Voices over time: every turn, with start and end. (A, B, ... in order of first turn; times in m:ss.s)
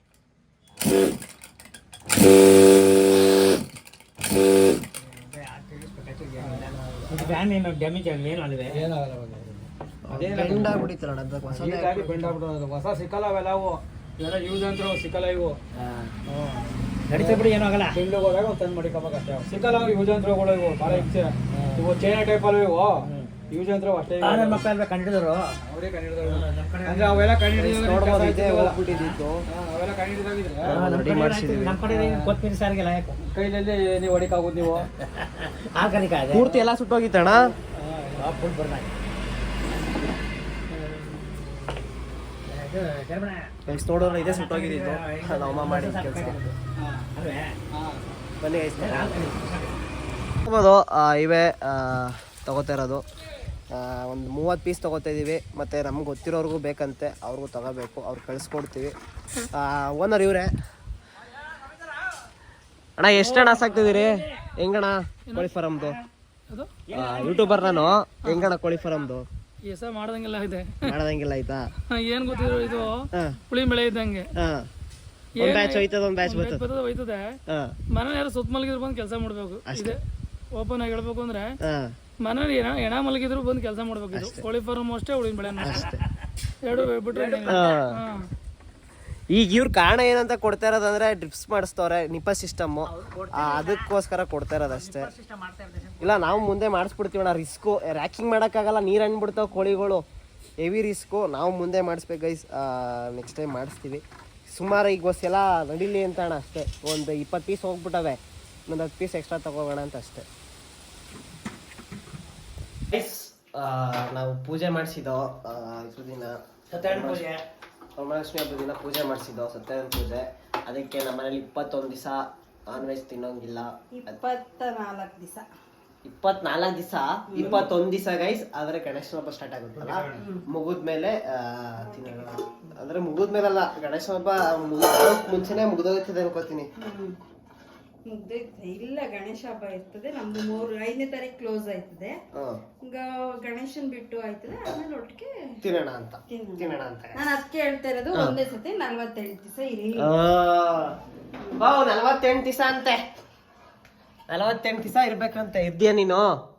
0:05.0-0:07.4 A
0:05.2-0:08.9 B
0:06.6-0:07.2 C
0:08.7-0:10.9 A
0:10.1-0:12.4 C
0:11.5-0:15.6 A
0:15.8-0:16.1 B
0:16.3-0:24.7 A
0:17.1-0:18.0 B
0:20.9-0:21.8 B
0:23.0-0:23.4 B
0:24.2-0:25.6 B
0:25.6-0:28.8 A
0:26.2-0:27.4 B
0:27.6-0:29.4 C
0:29.5-0:30.8 A
0:30.6-0:31.8 C
0:30.7-0:33.2 B
0:31.8-0:32.4 A
0:33.2-0:34.9 A
0:35.0-0:36.5 B
0:36.3-0:37.5 C
0:37.3-0:38.5 A
0:38.2-0:38.9 B
0:40.7-0:41.3 B
0:42.5-0:46.6 B
0:43.7-0:46.4 C
0:46.8-0:47.1 A
0:47.1-0:47.6 B
0:47.7-0:48.0 A
0:48.4-0:49.2 C
0:48.7-0:49.8 B
0:50.5-0:53.0 C
0:53.7-0:58.9 C
0:59.5-1:00.5 C
1:03.0-1:06.0 C
1:03.2-1:04.0 D
1:06.9-1:09.3 C
1:07.0-1:07.4 B
1:09.7-1:10.8 D
1:10.8-1:11.7 C
1:11.9-1:14.3 D
1:14.4-1:14.7 C
1:15.4-1:17.2 D
1:15.4-1:16.6 C
1:17.5-1:17.8 C
1:18.0-1:20.0 D
1:19.7-1:20.0 C
1:20.6-1:21.5 D
1:21.6-1:22.0 C
1:22.2-1:25.9 D
1:24.1-1:24.5 C
1:25.6-1:26.0 C
1:26.6-1:28.3 D
1:27.4-1:28.0 C
1:29.3-1:35.1 C
1:32.9-1:33.9 B
1:34.7-1:36.2 B
1:36.0-1:40.0 C
1:40.6-1:50.3 C
1:52.9-1:57.2 C
1:56.7-1:57.4 B
1:58.0-2:04.2 C
2:04.0-2:05.5 E
2:06.0-2:16.7 C
2:07.3-2:07.7 E
2:09.8-2:10.1 B
2:10.2-2:10.4 E
2:16.8-2:17.2 E
2:18.1-2:22.2 E
2:22.4-2:22.6 C
2:22.9-2:25.3 E
2:25.6-2:27.2 C
2:26.3-2:30.1 E
2:30.0-2:31.0 C
2:31.4-2:31.7 E
2:31.6-2:33.0 C
2:34.3-2:36.3 C